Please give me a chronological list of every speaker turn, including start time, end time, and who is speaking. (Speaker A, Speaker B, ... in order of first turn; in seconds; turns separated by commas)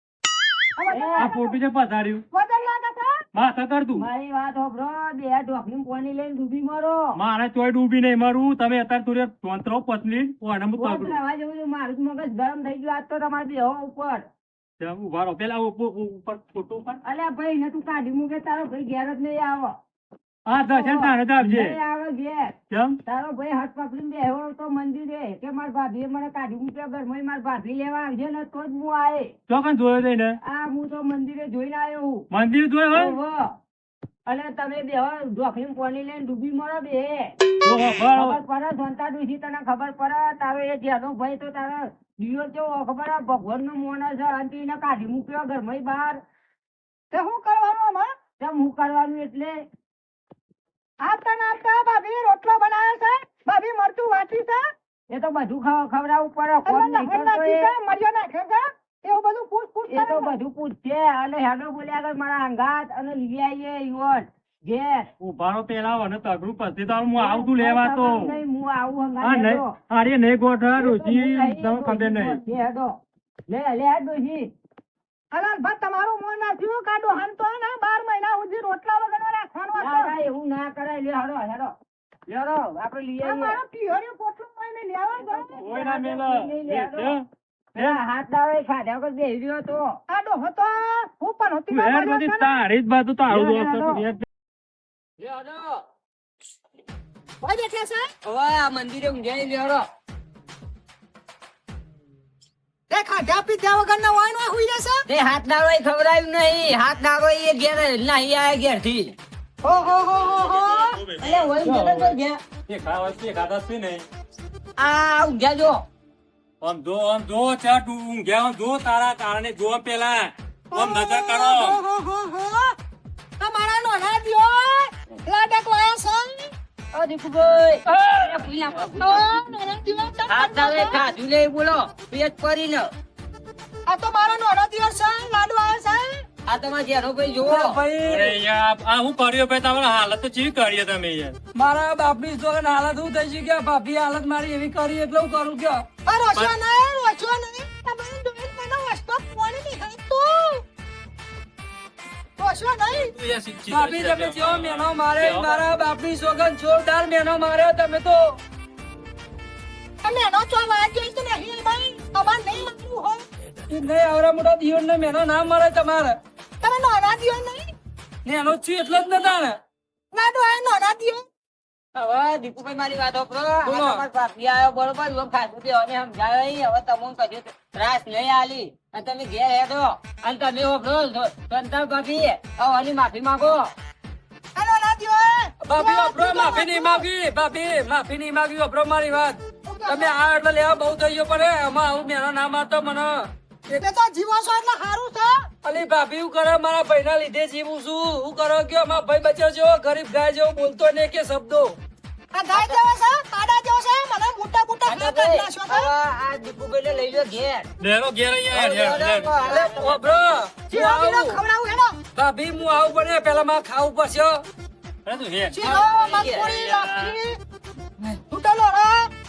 Speaker A: 0.8-1.6, Speaker B: 0.9-1.4, Speaker C: 1.2-2.2, Speaker A: 2.3-3.2, Speaker C: 3.3-4.1, Speaker B: 4.0-7.2, Speaker C: 7.2-11.2, Speaker B: 10.8-14.3, Speaker C: 14.8-17.0, Speaker B: 17.1-19.8, Speaker C: 20.5-21.8, Speaker B: 20.7-22.5, Speaker C: 22.7-23.0, Speaker B: 23.1-29.3, Speaker C: 29.5-30.4, Speaker B: 30.4-32.3, Speaker C: 32.3-33.2, Speaker B: 32.9-33.6, Speaker B: 34.3-37.4, Speaker C: 37.6-38.4, Speaker B: 38.1-46.2, Speaker A: 47.1-48.1, Speaker B: 48.4-49.6, Speaker A: 51.0-54.6, Speaker B: 55.1-57.8, Speaker A: 56.6-60.3, Speaker B: 59.9-65.1, Speaker C: 65.2-68.2, Speaker B: 67.2-69.7, Speaker C: 69.2-72.4, Speaker B: 70.8-74.5, Speaker A: 75.3-80.1, Speaker B: 79.8-81.8, Speaker B: 82.3-83.6, Speaker A: 83.2-85.5, Speaker B: 85.3-87.2, Speaker C: 85.6-87.2, Speaker B: 87.8-90.0, Speaker A: 90.1-92.6, Speaker C: 91.7-94.3, Speaker B: 93.3-94.0, Speaker B: 95.2-95.8, Speaker A: 97.4-98.1, Speaker B: 98.2-99.8, Speaker A: 102.9-105.0, Speaker B: 105.1-109.2, Speaker A: 109.6-111.0, Speaker B: 111.2-112.4, Speaker C: 111.6-112.2, Speaker C: 112.7-114.0, Speaker B: 114.8-115.8, Speaker C: 116.6-121.7, Speaker A: 120.7-122.7, Speaker A: 123.4-126.5, Speaker B: 126.9-129.3, Speaker D: 128.0-128.3, Speaker A: 129.0-131.0, Speaker B: 130.3-132.9, Speaker A: 133.9-136.2, Speaker B: 136.5-137.8, Speaker D: 137.4-138.3, Speaker C: 138.0-141.4, Speaker D: 141.6-145.8, Speaker A: 146.1-150.6, Speaker A: 152.4-153.1, Speaker C: 153.2-155.6, Speaker D: 153.7-158.4, Speaker A: 160.0-163.2, Speaker D: 163.7-166.2, Speaker A: 166.6-167.7, Speaker D: 168.2-169.6, Speaker A: 170.1-171.2, Speaker B: 171.9-183.7, Speaker D: 173.6-174.0, Speaker A: 184.6-187.1, Speaker D: 185.6-193.8, Speaker A: 189.7-190.2, Speaker A: 193.8-195.5, Speaker D: 195.6-201.8, Speaker A: 202.3-205.9, Speaker B: 202.5-202.8, Speaker B: 204.9-207.7, Speaker C: 207.8-209.3, Speaker B: 208.5-209.9, Speaker D: 209.5-211.3, Speaker A: 210.7-212.0, Speaker D: 212.2-214.4, Speaker C: 215.1-215.6, Speaker A: 215.5-217.4, Speaker B: 215.6-216.5, Speaker A: 218.3-219.1